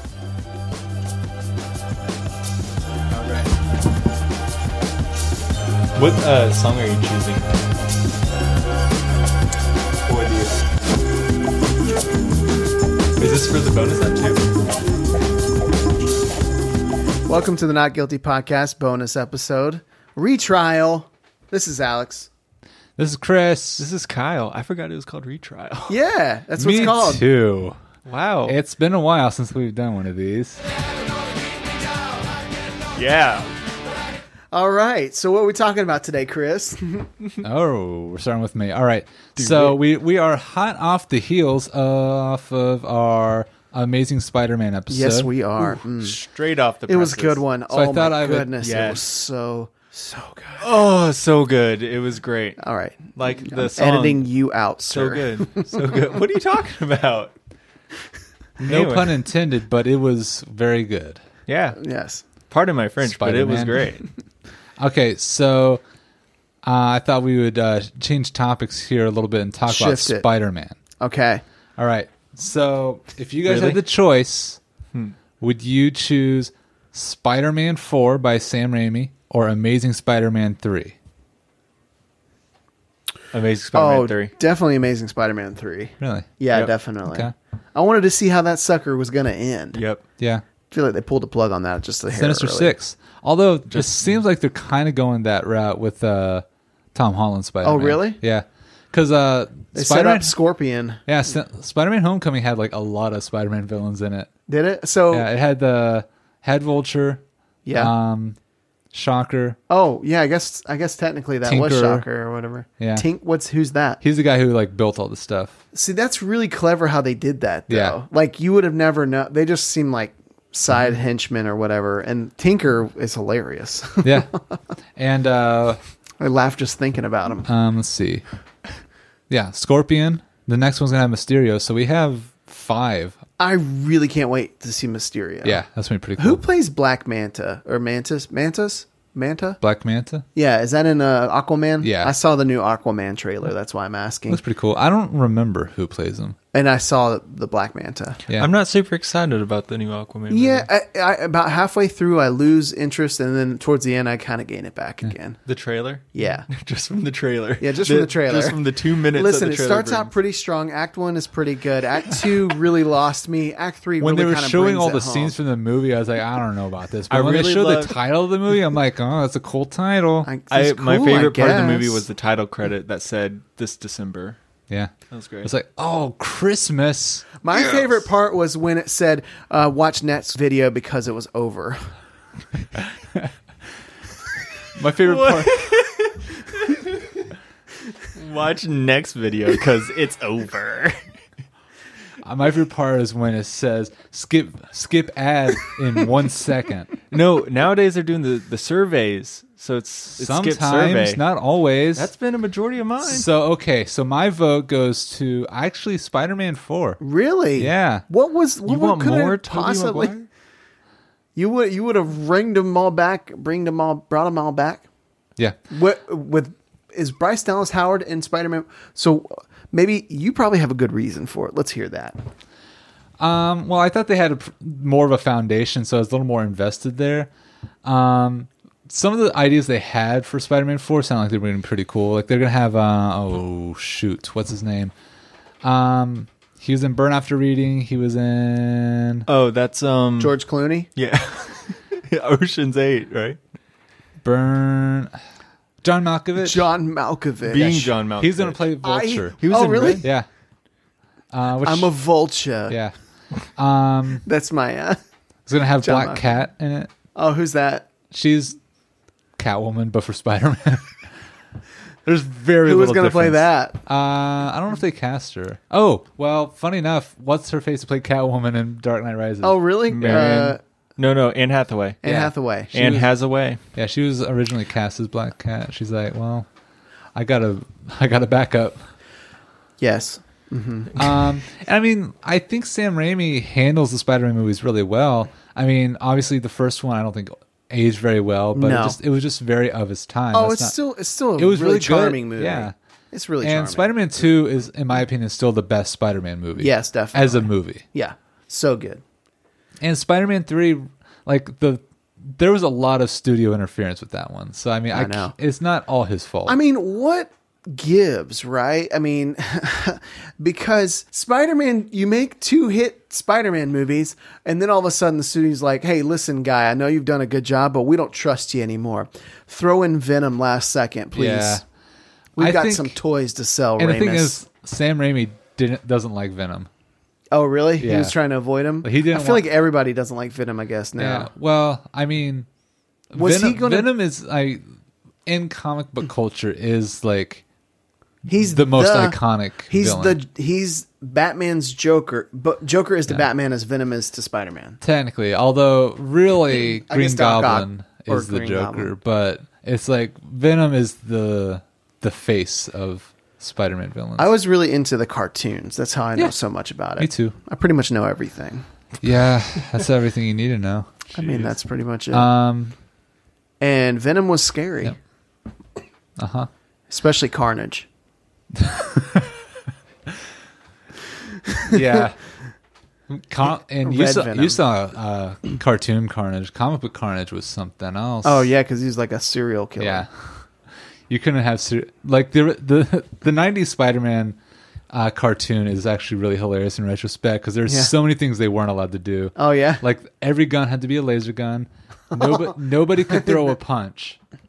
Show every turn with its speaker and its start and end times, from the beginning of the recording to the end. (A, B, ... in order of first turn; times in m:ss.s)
0:03.1-0:03.5 A
0:06.0-0:07.5 B
0:10.1-0:10.5 A
0:13.2-0:14.4 B
0:17.3-0:22.3 C
0:23.0-0:23.9 A
0:23.8-0:26.0 B
0:25.9-0:27.2 C
0:26.6-0:27.8 A
0:28.1-0:28.6 B
0:28.5-0:30.6 A
0:33.0-0:33.5 B
0:34.5-0:37.1 C
0:37.4-0:45.3 A
0:39.4-0:39.8 B
0:44.9-0:46.2 C
0:45.6-0:47.4 B
0:46.9-0:50.7 C
0:47.7-0:48.5 A
0:48.6-0:49.0 B
0:50.6-0:54.3 B
0:52.6-0:55.8 C
0:54.8-0:57.3 B
0:58.6-0:59.2 B
0:58.6-1:01.2 A
1:01.5-1:01.8 B
1:01.8-1:02.2 C
1:02.5-1:04.1 B
1:03.0-1:03.9 A
1:04.8-1:05.8 A
1:06.6-1:10.8 A
1:09.7-1:10.2 C
1:11.0-1:11.4 C
1:11.8-1:14.6 A
1:13.5-1:13.8 B
1:15.4-1:21.0 A
1:23.3-1:24.3 B
1:23.7-1:29.8 C
1:26.0-1:26.3 A
1:27.0-1:27.3 A
1:29.7-1:30.0 B
1:30.2-1:30.4 A
1:30.7-1:32.7 C
1:32.1-1:40.3 A
1:33.7-1:34.2 B
1:37.6-1:38.2 C
1:39.7-1:41.0 C
1:41.1-1:44.3 A
1:44.5-1:45.3 C
1:45.1-1:47.2 A
1:47.6-1:47.9 C
1:47.7-1:48.4 A
1:48.9-1:49.6 A
1:49.7-1:54.0 C
1:51.4-1:52.1 A
1:52.8-1:53.1 A
1:54.0-1:55.6 A
1:55.7-2:04.4 C
1:57.7-1:58.0 A
2:04.0-2:04.3 A
2:05.0-2:05.8 A
2:06.2-2:07.5 C
2:07.5-2:08.2 A
2:09.3-2:13.2 A
2:13.4-2:15.6 C
2:15.4-2:16.4 A
2:16.2-2:19.6 C
2:19.6-2:20.2 A
2:20.4-2:24.4 C
2:21.8-2:22.2 A
2:24.3-2:26.4 A
2:26.5-2:28.2 C
2:28.3-2:30.7 B
2:30.3-2:35.4 C
2:35.5-2:40.1 B
2:36.1-2:36.5 C
2:37.6-2:38.6 C
2:39.1-2:45.4 C
2:44.0-2:50.3 A
2:47.1-2:48.0 B
2:50.2-2:52.0 C
2:50.5-2:54.4 B
2:55.1-2:55.5 B
2:55.4-2:57.3 A
2:57.4-3:01.9 C
3:04.7-3:05.7 A
3:05.0-3:07.1 B
3:08.1-3:11.0 B
3:12.2-3:16.9 A
3:17.1-3:21.2 B
3:20.2-3:22.1 A
3:22.0-3:23.3 B
3:23.0-3:27.0 A
3:27.0-3:30.1 C
3:27.6-3:28.0 A
3:28.7-3:30.3 B
3:31.4-3:34.8 C
3:35.7-3:42.2 C
3:43.2-3:47.3 A
3:47.8-3:54.9 A
3:55.6-3:59.3 A
3:59.3-4:00.4 B
4:00.2-4:00.9 C
4:01.0-4:03.4 B
4:04.2-4:05.2 A
4:05.8-4:06.7 A
4:06.4-4:07.9 C
4:07.4-4:08.7 B
4:08.2-4:09.4 A
4:08.8-4:10.1 C
4:09.4-4:10.1 B
4:10.0-4:10.3 A
4:11.3-4:11.9 A
4:11.6-4:12.8 C
4:12.7-4:12.9 A
4:13.6-4:14.2 A
4:14.2-4:15.0 C
4:15.5-4:16.9 A
4:15.8-4:16.3 C
4:17.2-4:17.9 C
4:18.1-4:18.6 A
4:19.4-4:21.1 A
4:22.0-4:30.4 A
4:22.6-4:23.8 C
4:29.4-4:30.6 C
4:29.9-4:32.0 B
4:32.0-4:32.8 C
4:32.1-4:33.1 A
4:32.7-4:33.6 B
4:33.7-4:36.5 A
4:37.2-4:38.8 A
4:39.8-4:41.2 C
4:41.0-4:50.8 A
4:48.5-4:49.0 C
4:50.3-4:54.1 C
4:51.4-4:52.7 A
4:53.4-4:57.8 A
4:56.6-4:59.0 C
4:59.8-5:06.6 A
5:04.9-5:05.3 C
5:06.5-5:21.6 C
5:21.1-5:21.6 A
5:22.4-5:24.4 C
5:22.4-5:23.0 A
5:23.8-5:26.7 A
5:27.3-5:31.3 C
5:27.8-5:28.2 A
5:28.8-5:29.5 A
5:31.0-5:32.5 A
5:33.1-5:34.6 A
5:33.2-5:33.9 C
5:35.3-5:37.4 A
5:38.3-5:44.8 C
5:38.4-5:40.2 A
5:44.8-5:54.4 A
5:46.5-5:48.9 C
5:54.2-5:58.7 C
5:57.0-5:57.4 A
5:59.0-6:00.9 A
6:01.1-6:02.3 C
6:01.2-6:01.5 B
6:02.1-6:02.7 A
6:03.6-6:05.0 C
6:06.2-6:06.5 A
6:06.9-6:07.9 C
6:08.6-6:09.3 A
6:11.6-6:12.0 C
6:11.7-6:12.2 A
6:13.1-6:18.5 A
6:13.8-6:14.6 C
6:18.2-6:20.1 C
6:19.8-6:20.4 A
6:21.1-6:24.4 A
6:24.9-6:34.2 A
6:27.7-6:27.9 C
6:29.4-6:29.8 C